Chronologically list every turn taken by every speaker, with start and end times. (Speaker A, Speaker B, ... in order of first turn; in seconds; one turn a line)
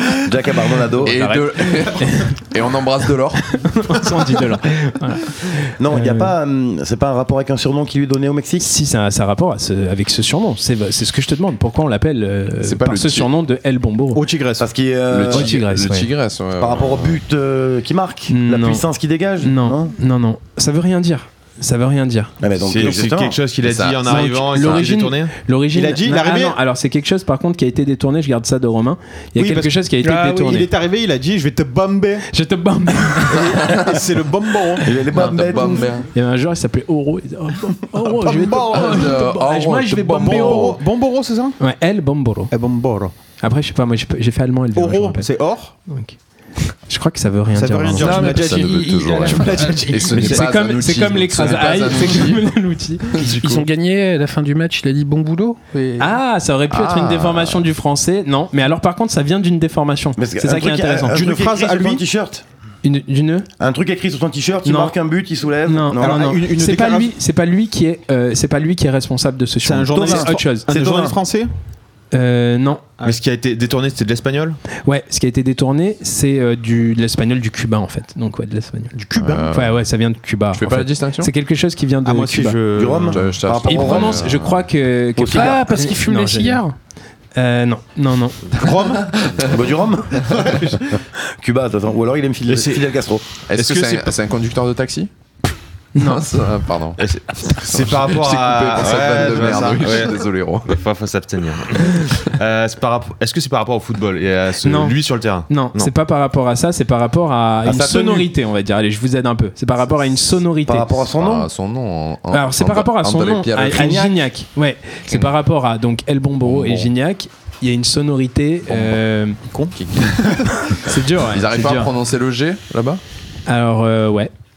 Speaker A: 0.2-1.2
Speaker B: 1.0-3.8
Speaker C: 1.7-2.4
Speaker C: 3.5-6.3
Speaker A: 5.8-8.7
Speaker C: 8.6-14.2
Speaker B: 12.6-13.3
Speaker D: 14.2-14.7
Speaker A: 14.6-15.6
Speaker B: 15.1-17.2
Speaker C: 15.3-16.1
Speaker A: 16.6-19.9
Speaker C: 18.3-18.9
Speaker C: 19.4-22.3
Speaker A: 22.4-23.4
Speaker E: 22.6-25.4
Speaker B: 23.6-24.9
Speaker C: 24.1-30.7
Speaker D: 25.7-26.6
Speaker D: 29.4-32.3
Speaker C: 32.3-33.6
Speaker D: 33.2-34.9
Speaker B: 33.4-34.0
Speaker A: 34.8-35.9
Speaker C: 35.1-40.8
Speaker B: 35.2-36.1
Speaker D: 38.0-39.2
Speaker B: 38.7-40.8
Speaker D: 40.2-41.6
Speaker C: 41.6-42.5
Speaker D: 42.5-43.1
Speaker C: 43.4-45.3
Speaker D: 44.8-45.7
Speaker C: 45.9-46.2
Speaker C: 46.9-48.5
Speaker D: 47.5-50.5
Speaker B: 48.0-52.5
Speaker F: 48.0-48.4
Speaker C: 49.2-53.4
Speaker F: 49.6-49.8
Speaker B: 53.1-53.6
Speaker F: 53.2-56.1
Speaker C: 56.0-61.2
Speaker B: 56.7-57.7
Speaker A: 60.2-62.4
Speaker D: 61.1-62.0
Speaker C: 62.8-63.5
Speaker A: 63.6-66.3
Speaker C: 64.7-65.0
Speaker C: 65.7-70.7
Speaker D: 66.0-67.1
Speaker D: 69.6-71.5
Speaker A: 70.0-71.2
Speaker C: 72.1-72.9
Speaker E: 73.0-74.6
Speaker C: 74.8-78.9
Speaker D: 79.0-79.4
Speaker B: 79.2-79.8
Speaker C: 79.5-82.6
Speaker B: 80.5-81.3
Speaker D: 82.0-83.2
Speaker A: 82.8-84.3
Speaker B: 83.1-84.7
Speaker C: 83.6-86.6
Speaker A: 85.2-85.6
Speaker F: 85.3-86.8
Speaker C: 87.3-88.6
Speaker D: 88.5-89.2
Speaker B: 88.8-89.6
Speaker A: 89.5-90.8
Speaker A: 91.4-93.2
Speaker E: 92.5-92.8
Speaker B: 93.5-95.1
Speaker E: 93.5-94.2
Speaker C: 96.0-96.3
Speaker B: 96.0-100.8
Speaker E: 97.0-105.9
Speaker C: 104.6-105.0
Speaker C: 105.5-111.0
Speaker A: 107.7-108.3
Speaker A: 110.7-111.5
Speaker B: 111.2-114.1
Speaker C: 112.3-119.4
Speaker A: 113.3-114.2
Speaker B: 116.4-116.9
Speaker B: 118.7-119.0
Speaker D: 119.5-120.5
Speaker B: 119.7-123.0
Speaker C: 120.7-121.9
Speaker C: 123.5-124.3